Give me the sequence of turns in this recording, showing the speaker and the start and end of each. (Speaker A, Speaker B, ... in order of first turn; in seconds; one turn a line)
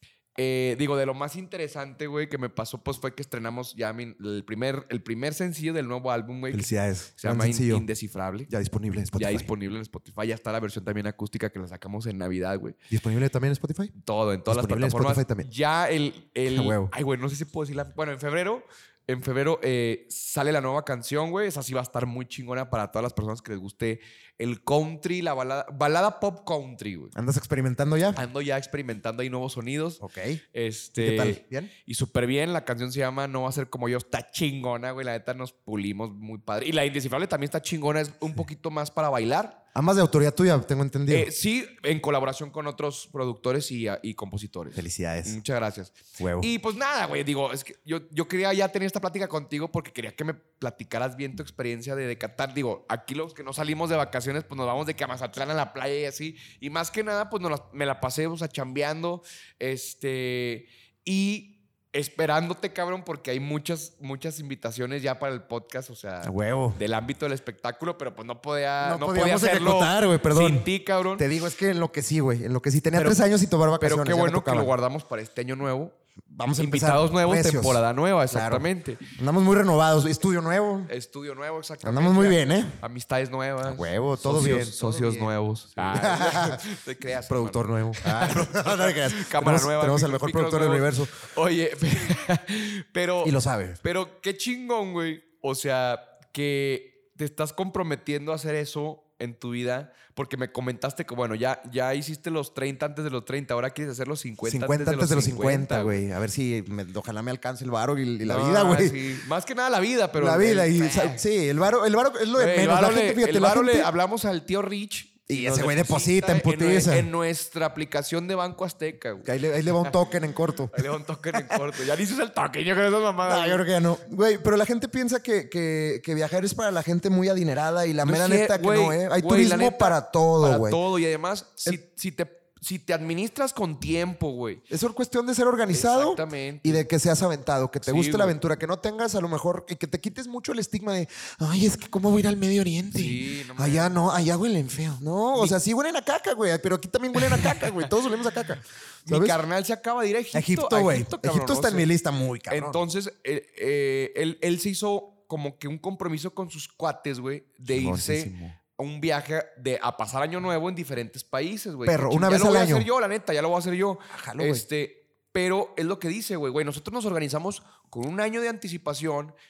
Speaker A: 0.4-8.5
Speaker B: 6.5-7.9
Speaker B: 8.5-9.5
Speaker A: 9.1-12.8
Speaker B: 12.9-13.9
Speaker A: 13.9-27.1
Speaker B: 14.5-15.5
Speaker B: 16.5-16.9
Speaker B: 27.1-28.2
Speaker A: 28.1-30.0
Speaker B: 30.0-30.4
Speaker A: 30.5-39.6
Speaker B: 31.0-31.7
Speaker B: 39.8-41.3
Speaker A: 41.1-71.2
Speaker B: 44.8-45.4
Speaker B: 46.2-46.5
Speaker B: 66.2-66.8
Speaker B: 68.8-74.7
Speaker A: 73.0-73.2
Speaker A: 73.8-76.0
Speaker B: 76.3-80.9
Speaker A: 76.6-79.1
Speaker A: 80.9-106.0
Speaker B: 81.8-82.8
Speaker B: 83.7-86.7
Speaker B: 87.3-91.3
Speaker B: 93.2-93.8
Speaker B: 104.5-109.0
Speaker A: 108.2-111.2
Speaker B: 110.2-113.9
Speaker A: 112.3-120.1
Speaker B: 115.3-117.1
Speaker B: 119.2-120.8
Speaker A: 120.7-123.7
Speaker B: 121.3-121.6
Speaker B: 123.2-130.8
Speaker A: 128.0-134.6
Speaker B: 134.7-149.4
Speaker A: 135.7-136.8
Speaker A: 137.8-138.4
Speaker A: 142.9-144.0
Speaker A: 147.2-147.9
Speaker A: 149.1-151.9
Speaker B: 150.3-152.8
Speaker A: 152.5-169.3
Speaker B: 157.7-158.6
Speaker B: 161.9-162.9
Speaker B: 164.1-164.7